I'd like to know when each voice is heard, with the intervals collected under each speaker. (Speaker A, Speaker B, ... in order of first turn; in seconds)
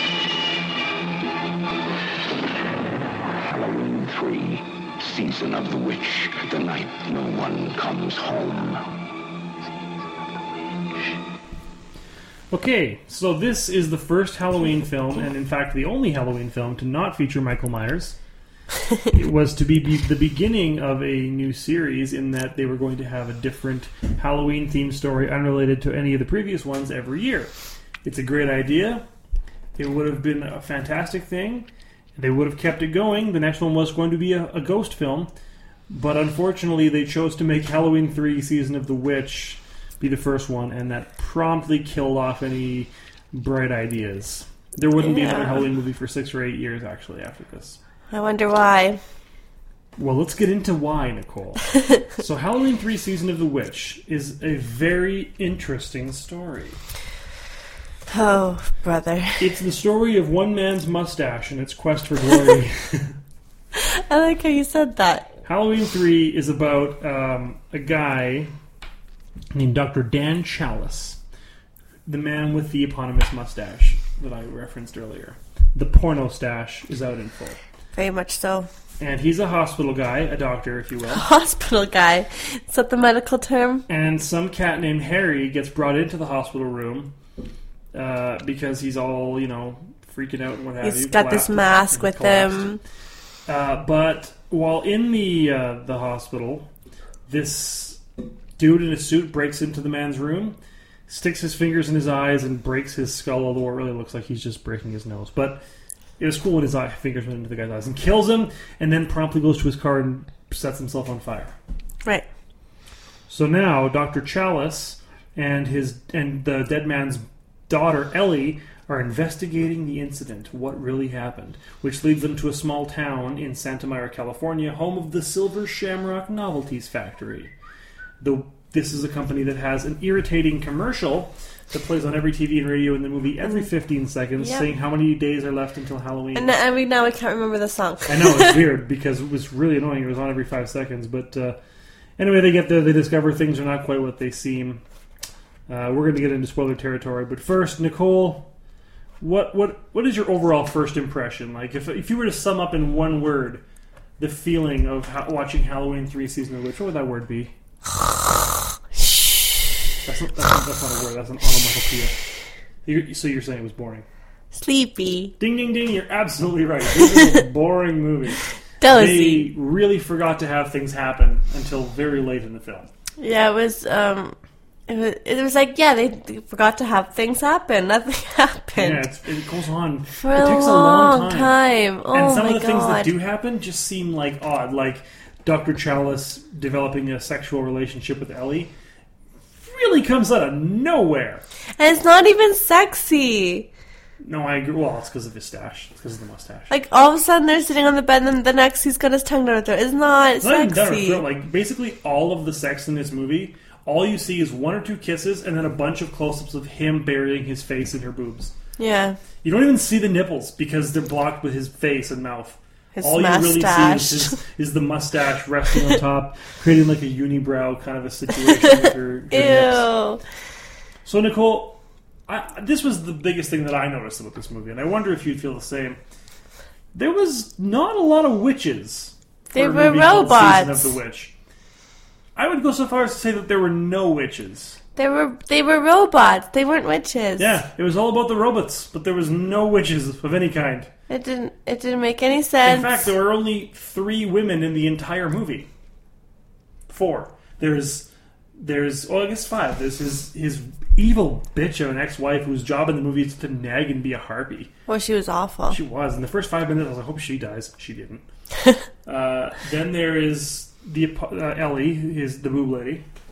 Speaker A: 3.4-8.9
Speaker B: 12.5-18.2, 19.1-27.5, 28.0-29.0, 29.8-35.3, 35.9-47.8, 50.0-56.8, 59.4-63.1, 65.5-68.5, 69.5-71.2, 72.1-77.6, 79.0-81.3, 83.9-87.1, 87.9-92.7, 93.5-96.7, 97.3-98.0, 98.6-105.6, 106.2-111.5, 113.3-127.5, 128.2-136.6, 138.1-141.6, 142.2-144.8, 145.7-148.5, 149.2-153.6, 154.2-157.5, 160.1-162.2, 162.8-164.1, 165.4-172.9, 178.8-181.6, 182.1-188.7, 189.6-191.4, 194.2-196.7, 200.4-208.5, 209.4-219.9, 221.1-226.0, 226.9-231.3, 232.4-234.8, 237.4-240.9, 242.6-245.7, 246.9-254.7, 255.7-258.2, 259.1-263.1
Speaker C: 45.0-45.7, 48.1-49.0, 58.1-59.4, 63.8-65.3, 77.9-78.7, 81.1-83.9, 90.8-92.8, 134.4-134.7, 136.3-138.6, 159.0-159.3, 164.5-165.3, 168.8-169.5, 173.2-174.3, 174.9-179.1, 180.1-183.1, 191.8-193.7, 196.7-201.3, 208.8-209.2, 212.9-214.4, 218.8-220.2, 229.5-230.9, 235.0-237.6, 241.1-243.1, 254.9-255.8